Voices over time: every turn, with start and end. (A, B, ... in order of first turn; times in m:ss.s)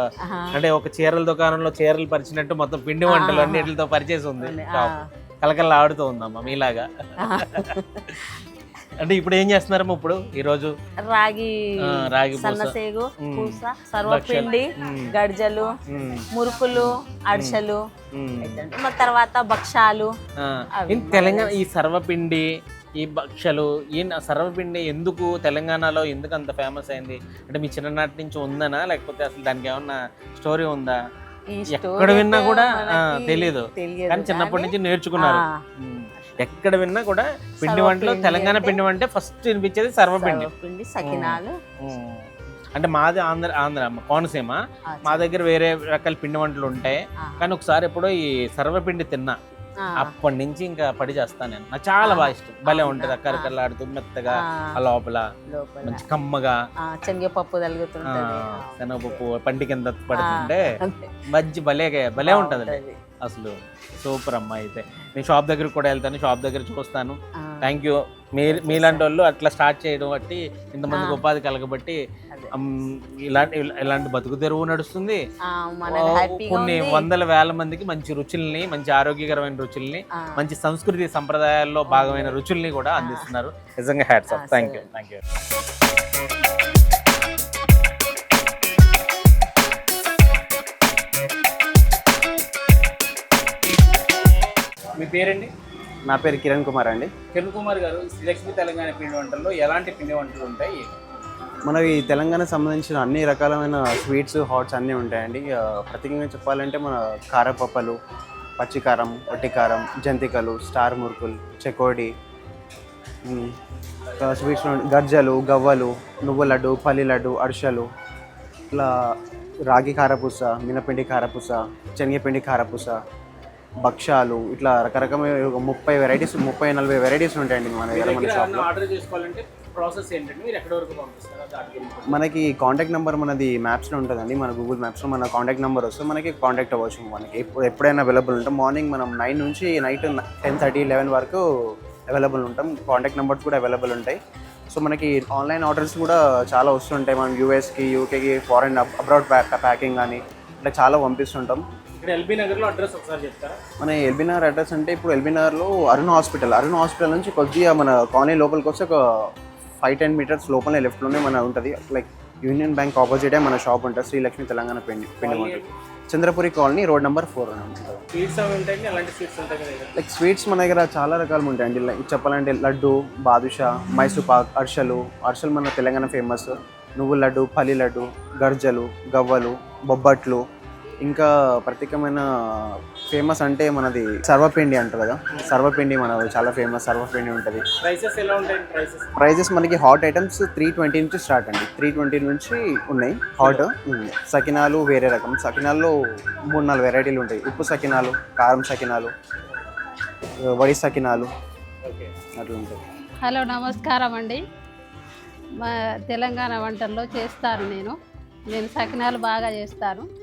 0:00.3-0:00.6 A
0:00.5-0:07.7 B
0:03.0-0:03.7 A
0:04.4-0:05.0 A
0:07.2-0:08.2 A
0:09.0-0:10.7 B
0:11.0-0:15.7 A
0:11.8-0:15.1 B
0:15.9-0:17.6 B
0:16.3-0:17.8 A
0:18.1-0:18.6 B
0:18.4-0:20.1 A
0:20.4-0:22.4 B
0:20.8-0:21.6 A
0:23.0-0:31.0 B
0:31.5-0:35.6 A
0:31.7-0:40.5 B
0:36.2-0:36.4 A
0:37.6-0:38.8 A
0:40.2-0:41.5 A
0:41.0-0:49.4 B
0:44.9-0:45.3 A
0:47.2-0:47.5 A
0:50.0-0:55.2 B
0:52.0-0:53.5 A
0:54.4-0:54.7 A
0:55.5-0:56.1 A
0:55.8-0:56.6 B
0:56.8-0:59.2 A
0:58.0-1:00.7 B
1:00.1-1:01.1 A
1:01.3-1:12.0 B
1:02.2-1:03.0 A
1:07.4-1:07.7 A
1:08.4-1:09.1 A
1:10.9-1:11.2 A
1:12.6-1:15.2 B
1:15.5-1:17.1 A
1:15.9-1:25.2 B
1:20.2-1:20.4 A
1:21.9-1:22.4 A
1:23.0-1:23.3 A
1:24.3-1:24.8 A
1:34.9-1:35.5 B
1:36.0-1:37.1 C
1:37.3-1:40.9 B
1:41.6-1:48.0 C
1:48.6-1:52.1 C
1:53.2-1:53.5 C
1:54.2-1:57.9 C
1:58.7-1:59.1 C
1:59.7-2:03.0 C
2:03.8-2:08.7 C
2:07.9-2:12.2 B
2:12.1-2:21.4 C
2:22.1-2:24.2 C
2:24.7-2:31.6 C
2:32.0-2:33.6 B
2:33.8-2:39.3 C
2:39.8-2:48.0 C
2:45.2-2:45.7 B
2:48.1-2:50.0 B
2:50.0-3:00.4 C
3:01.0-3:07.6 C
3:07.8-3:09.1 B
3:09.2-3:19.1 C
3:13.4-3:13.6 B
3:20.4-3:21.3 C
3:22.4-3:22.8 C
3:23.3-3:24.4 D
3:25.6-3:27.9 D
3:28.5-3:30.0 D